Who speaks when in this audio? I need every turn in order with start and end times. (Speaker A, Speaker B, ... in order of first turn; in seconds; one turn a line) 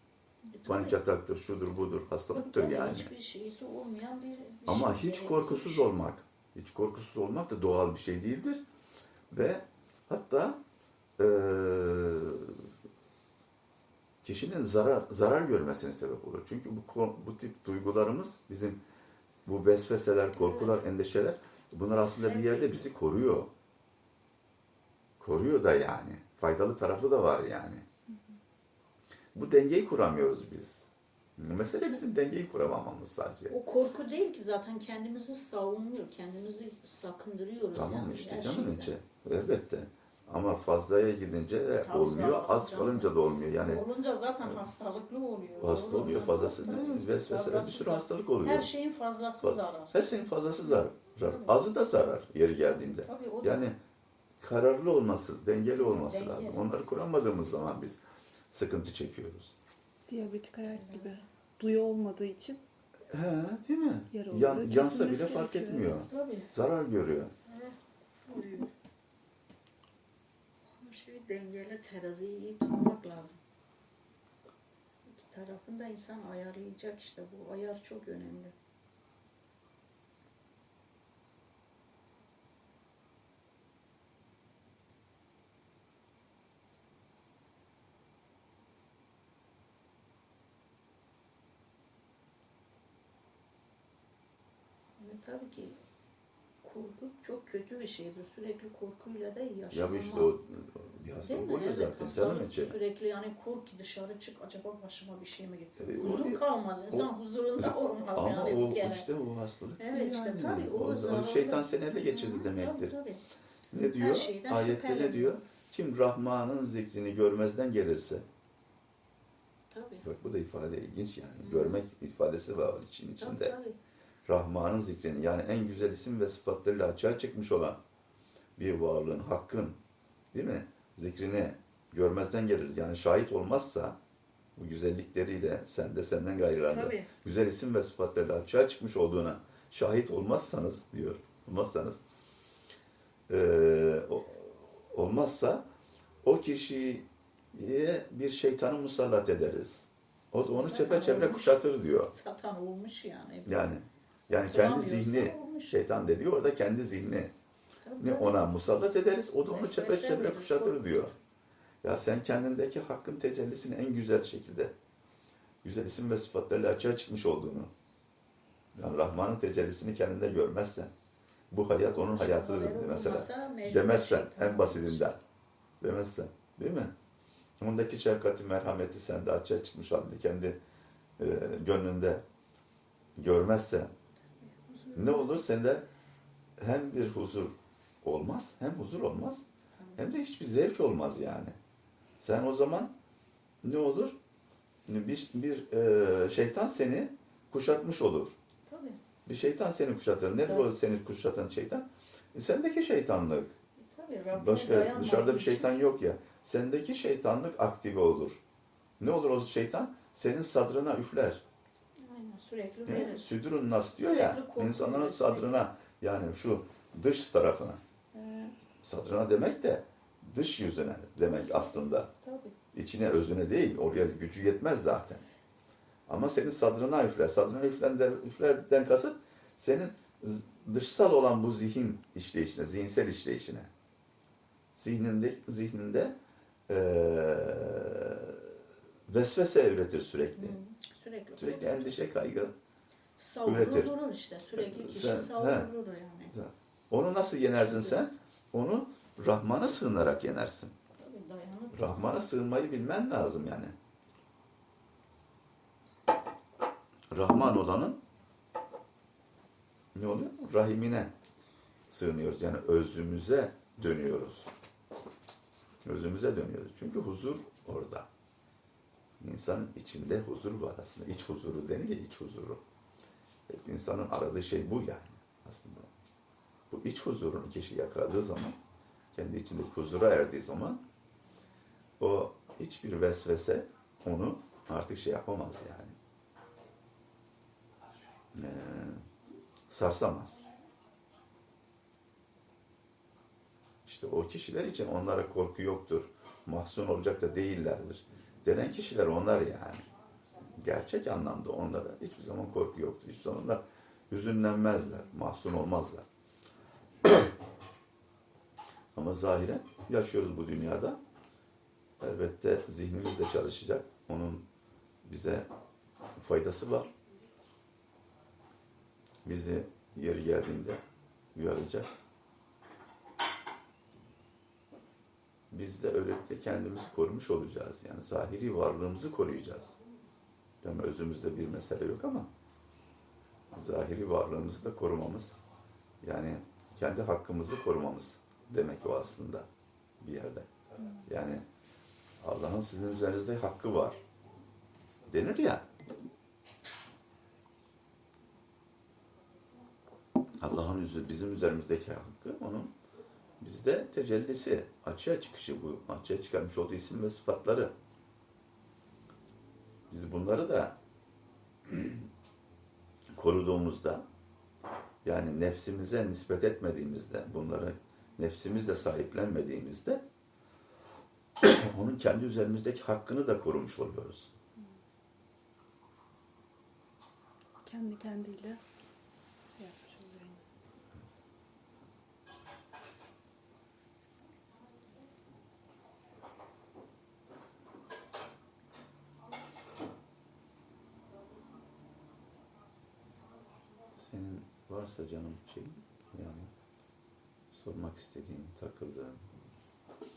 Speaker A: 0.5-1.0
Speaker B: 0.7-3.1
Speaker A: 2.3-5.9
Speaker B: 4.7-8.6
Speaker B: 9.3-10.6
Speaker B: 11.2-12.7
Speaker B: 14.2-18.8
Speaker B: 19.4-23.5
Speaker A: 20.4-20.8
Speaker A: 22.1-22.8
Speaker B: 25.2-27.9
Speaker B: 29.4-33.6
Speaker A: 33.5-39.0
Speaker B: 37.7-43.9
Speaker A: 41.8-50.0
Speaker B: 45.6-48.7
Speaker B: 49.4-53.8
Speaker A: 50.6-51.6
Speaker A: 52.7-53.7
Speaker B: 54.4-58.0
Speaker A: 55.7-56.7
Speaker B: 58.5-59.5
Speaker C: 60.1-62.6
Speaker A: 60.6-61.2
Speaker B: 63.1-67.3
Speaker C: 64.1-66.0
Speaker A: 65.9-66.5
Speaker A: 67.5-67.8
Speaker A: 68.3-68.7
Speaker A: 70.8-73.4
Speaker A: 75.1-78.5
Speaker A: 95.0-95.8
Speaker A: 96.6-100.4
Speaker B: 99.7-102.8
Speaker A: 101.2-109.1
Speaker B: 105.8-112.9
Speaker A: 109.8-113.2
Speaker B: 113.7-118.2
Speaker A: 114.0-115.4
Speaker A: 119.7-120.0
Speaker B: 120.0-123.5
Speaker A: 121.4-121.8
Speaker A: 123.2-123.8
Speaker B: 124.3-127.8
Speaker B: 128.6-129.8
Speaker B: 130.3-134.0
Speaker B: 134.6-142.0
Speaker A: 136.6-137.1
Speaker B: 143.3-145.7
Speaker B: 146.2-152.1
Speaker A: 150.4-151.6
Speaker A: 152.1-153.7
Speaker B: 153.4-157.3
Speaker A: 154.3-155.9
Speaker A: 157.8-158.6
Speaker B: 158.0-161.1
Speaker A: 159.5-161.1
Speaker B: 161.8-164.7
Speaker B: 165.6-167.7
Speaker B: 168.8-170.9
Speaker B: 171.5-175.2
Speaker A: 171.9-175.1
Speaker B: 175.8-176.9
Speaker B: 177.6-180.6
Speaker B: 181.2-182.2
Speaker B: 183.2-183.9
Speaker A: 184.4-185.5
Speaker B: 184.9-185.9
Speaker B: 186.6-189.4
Speaker A: 189.8-190.1
Speaker B: 190.0-191.6
Speaker B: 192.2-192.9
Speaker B: 193.6-194.2
Speaker B: 194.9-198.4
Speaker A: 198.7-199.0
Speaker B: 199.3-203.5
Speaker A: 200.4-200.7
Speaker A: 203.8-205.7
Speaker B: 204.3-208.4
Speaker B: 209.0-211.4
Speaker A: 212.0-213.3
Speaker B: 212.9-217.8
Speaker A: 214.0-215.7
Speaker A: 218.1-218.6
Speaker B: 218.8-222.1
Speaker A: 221.3-222.6
Speaker B: 222.7-225.2
Speaker B: 226.1-233.7
Speaker B: 234.8-236.2
Speaker B: 236.7-238.6
Speaker B: 239.1-240.6
Speaker A: 240.4-242.0
Speaker B: 241.4-242.5
Speaker A: 243.2-246.3
Speaker B: 243.4-243.9
Speaker B: 244.6-245.7
Speaker B: 246.3-250.7
Speaker A: 247.5-248.1
Speaker A: 251.0-252.2
Speaker B: 251.7-253.8
Speaker B: 257.1-258.0
Speaker B: 259.9-261.1
Speaker B: 261.9-264.5
Speaker B: 265.9-268.1
Speaker B: 269.2-272.6
Speaker B: 273.5-275.9
Speaker B: 276.7-278.6
Speaker B: 279.1-280.8
Speaker B: 282.0-286.0
Speaker B: 288.4-289.1
Speaker B: 289.7-290.4
Speaker B: 293.9-299.9
Speaker B: 300.5-306.1
Speaker B: 308.9-311.0
Speaker B: 312.0-314.4
Speaker B: 315.0-315.5
Speaker B: 316.2-316.9
Speaker B: 319.2-320.8
Speaker B: 321.4-321.9
Speaker B: 325.5-329.8
Speaker B: 330.6-332.3
Speaker B: 333.5-335.4
Speaker B: 336.0-339.5
Speaker B: 340.0-341.4
Speaker B: 342.2-344.0
Speaker B: 345.1-345.6
Speaker B: 350.4-352.7
Speaker B: 353.4-357.7
Speaker B: 359.9-360.8
Speaker B: 361.7-362.1
Speaker B: 363.1-364.1
Speaker B: 365.0-370.0
Speaker B: 371.4-374.3
Speaker C: 377.6-378.6
Speaker C: 379.5-380.4
Speaker B: 393.9-396.5
Speaker B: 397.5-399.2